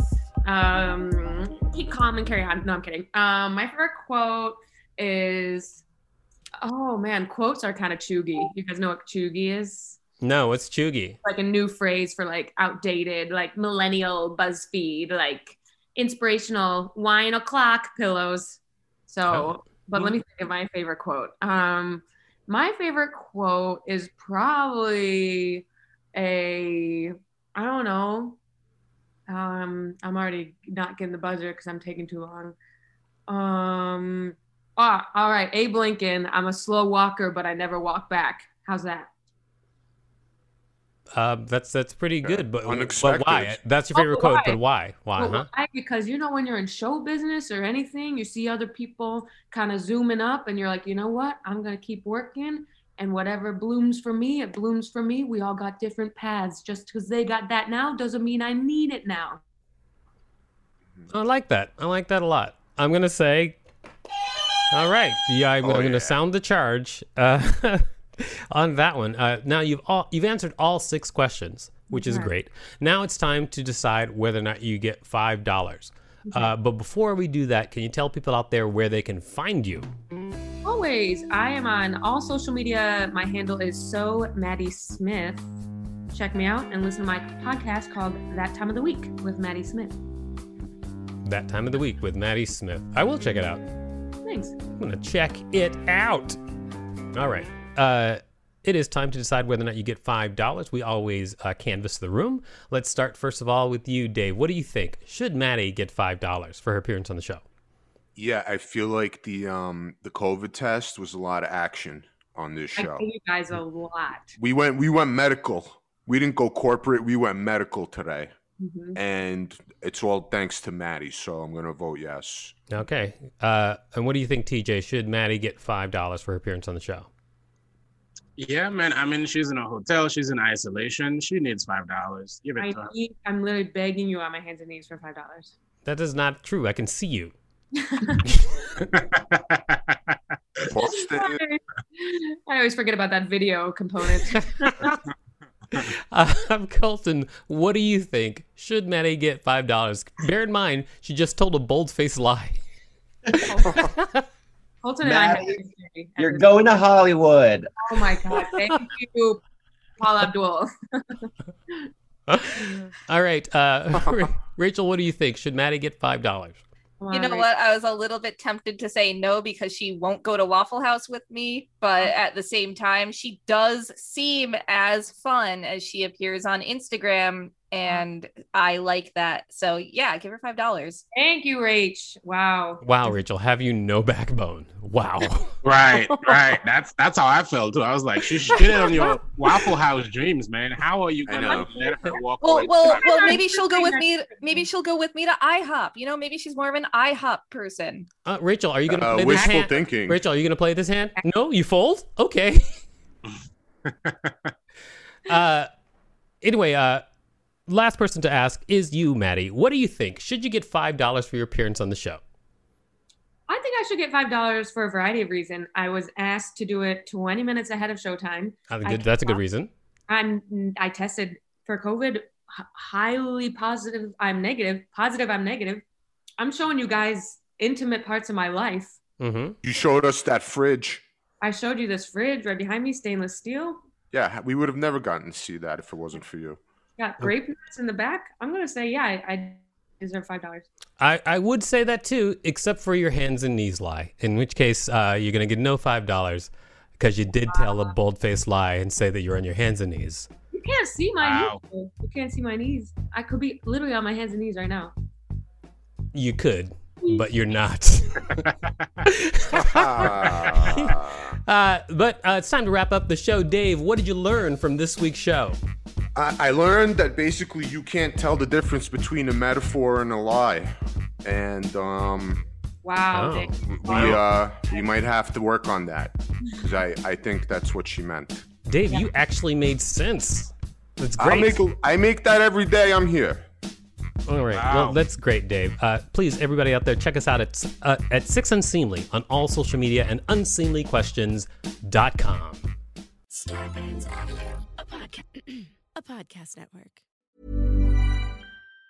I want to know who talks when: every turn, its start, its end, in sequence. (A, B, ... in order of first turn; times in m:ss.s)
0:00.4-0:05.8 A
0:06.6-0:10.0 A
0:10.2-0:11.2 B
0:11.2-0:28.4 A
0:19.2-0:19.5 B
0:29.3-0:32.6 A
0:33.3-0:39.1 A
0:41.1-0:45.5 B
0:42.2-0:43.6 C
0:43.9-0:44.6 A
0:45.2-0:59.4 A
1:01.1-1:03.6 B
1:04.7-1:19.9 B
1:05.6-1:06.2 C
1:11.9-1:12.3 A
1:16.2-1:16.5 A
1:20.6-1:25.5 A
1:26.1-1:30.0 A
1:31.2-1:33.6 B
1:34.2-1:34.6 A
1:34.7-1:36.4 B
1:37.1-1:47.4 B
1:48.2-1:53.0 C
1:52.8-1:54.4 A
1:54.4-1:58.3 C
1:58.6-1:59.0 A
1:58.9-2:02.5 C
2:02.7-2:07.1 B
2:08.4-2:12.9 D
2:12.6-2:15.5 A
2:15.8-2:17.3 B
2:17.7-2:18.2 A
2:18.9-2:19.8 D
2:20.7-2:21.4 C
2:20.8-2:24.8 A
2:24.6-2:25.0 B
2:25.7-2:32.6 B
2:33.3-2:34.2 B
2:33.4-2:33.8 A
2:34.8-2:36.9 A
2:35.0-2:35.6 E
2:36.2-2:37.7 E
2:37.8-2:39.4 A
2:38.3-2:38.7 B
2:40.0-2:41.9 A
2:42.3-2:46.6 B
2:42.6-2:42.8 A
2:47.0-2:47.5 A
2:47.1-3:01.0 F
3:01.1-3:03.1 A
3:02.8-3:05.5 B
3:05.6-3:13.0 D
3:11.3-3:11.7 C
3:11.4-3:12.2 A
3:12.4-3:18.1 F
3:12.7-3:14.6 A
3:18.2-3:22.6 B
3:18.9-3:20.2 C
3:19.2-3:19.7 A
3:23.9-3:24.5 D
3:25.3-3:25.7 B
3:26.4-3:27.0 B
3:27.7-3:32.2 B
3:33.5-3:39.4 A
3:38.7-3:39.7 B
3:40.1-3:45.8 A
3:46.4-3:49.0 A
3:49.2-3:49.6 B
3:49.6-3:51.0 C
3:51.4-3:53.8 A
3:54.1-3:56.6 C
3:57.0-4:00.7 A
4:01.0-4:10.3 B
4:07.4-4:07.9 A
4:10.5-4:14.9 A
4:11.2-4:11.6 D
4:16.1-4:18.3 B
4:17.0-4:17.4 A
4:19.0-4:25.6 B
4:19.6-4:21.3 C
4:26.1-4:32.4 C
4:32.8-4:34.9 A
4:33.1-4:34.2 B
4:33.7-4:38.4 C
4:38.7-4:41.6 B
4:41.2-4:43.4 C
4:44.3-4:52.7 B
4:44.5-4:45.0 D
4:53.6-4:53.8 G
4:54.8-4:56.9 G